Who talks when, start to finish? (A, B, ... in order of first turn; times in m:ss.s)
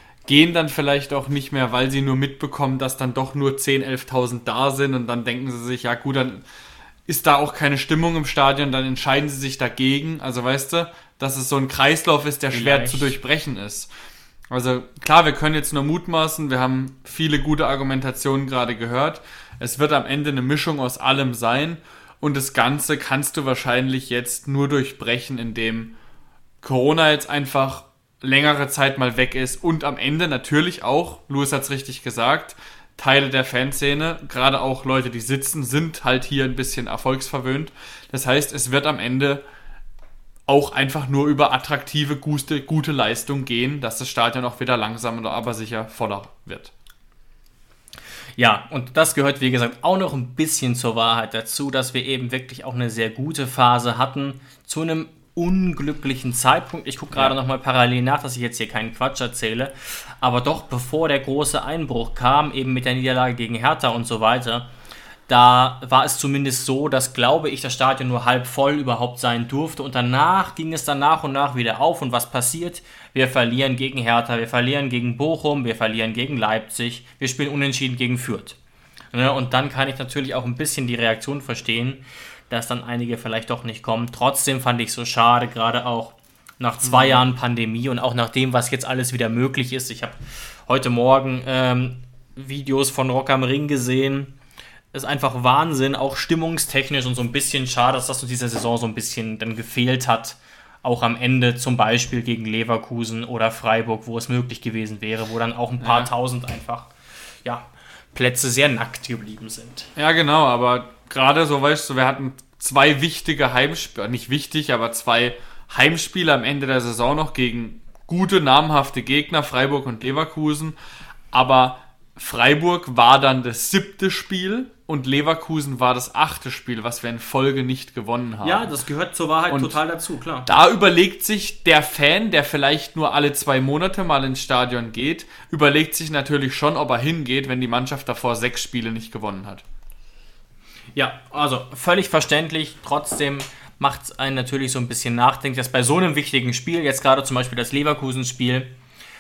0:00.3-0:06.4 A
0:07.1-0:13.9 A
0:12.5-0:13.2 B
0:14.5-0:25.9 A
0:26.6-0:39.4 A
0:40.5-0:46.7 A
0:48.4-1:04.7 B
1:05.3-1:18.6 B
1:19.1-1:34.3 B
1:26.8-1:27.2 A
1:34.9-1:46.9 B
1:45.8-1:46.1 A
1:47.4-1:49.9 B
1:50.0-2:00.8 A
2:01.3-2:08.7 A
2:08.4-2:10.5 B
2:09.5-2:09.8 A
2:10.5-2:19.6 A
2:21.0-2:28.7 B